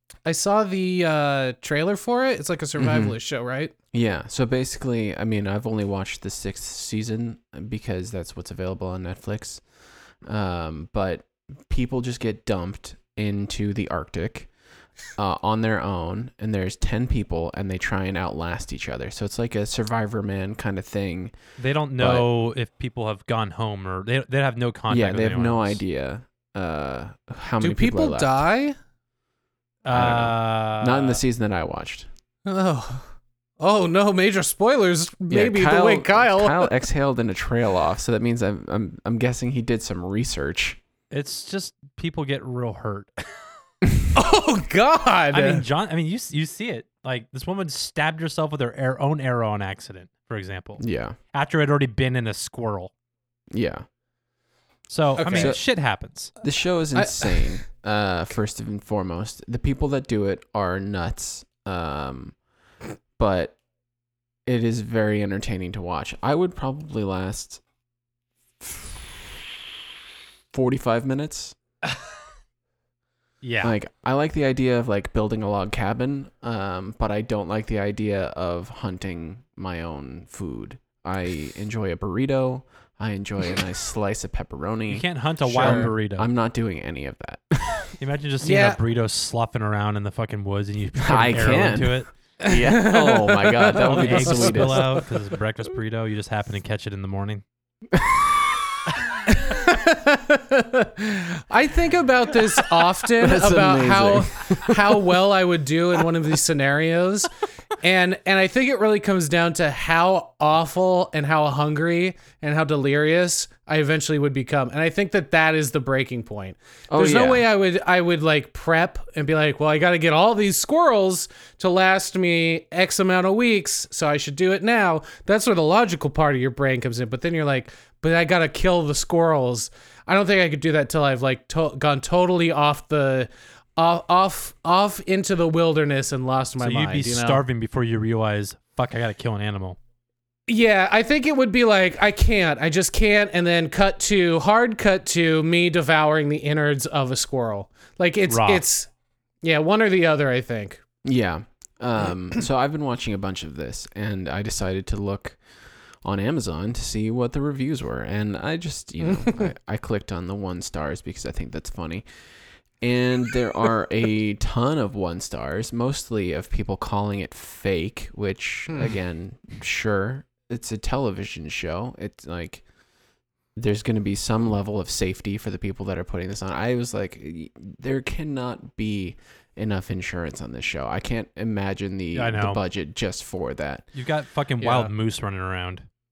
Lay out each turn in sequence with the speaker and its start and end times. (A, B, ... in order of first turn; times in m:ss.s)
0:00.2-0:03.7 A
0:02.8-0:03.2 B
0:03.9-0:09.6 B
0:10.2-0:14.5 B
0:15.2-0:21.3 B
0:21.6-0:25.8 C
0:22.0-0:22.3 B
0:24.9-0:28.4 B
0:27.6-0:28.8 A
0:29.8-0:31.2 C
0:29.9-0:32.1 B
0:32.4-0:33.0 A
0:33.6-0:36.7 A
0:35.3-0:40.8 B
0:41.1-0:43.2 C
0:44.1-0:45.6 A
0:45.3-0:52.9 C
0:50.8-0:51.2 B
0:53.5-0:53.8 B
0:54.9-0:56.3 C
0:55.2-0:55.5 A
0:55.3-0:55.6 B
0:56.4-1:02.3 B
0:56.9-0:57.6 A
1:03.2-1:03.6 B
1:04.4-1:07.6 B
1:08.6-1:09.2 B
1:10.5-1:11.5 B
1:13.4-1:13.7 C
1:13.6-1:27.9 B
1:24.9-1:26.3 C
1:28.0-1:32.1 C
1:28.4-1:28.8 A
1:31.0-1:35.0 B
1:32.4-1:35.0 A
1:33.8-1:37.4 C
1:37.9-1:38.4 B
1:39.3-1:47.3 A
1:43.2-1:45.0 B
1:47.8-2:17.4 A
1:56.9-1:57.4 B
2:16.6-2:19.8 C
2:20.5-2:28.9 A
2:28.3-2:28.6 C
2:29.4-2:30.8 A
2:31.0-2:35.4 B
2:36.0-2:42.0 B
2:42.8-2:52.6 B
2:53.6-3:03.8 B
3:02.1-3:02.6 C
3:03.9-3:05.8 C
3:04.6-3:04.9 A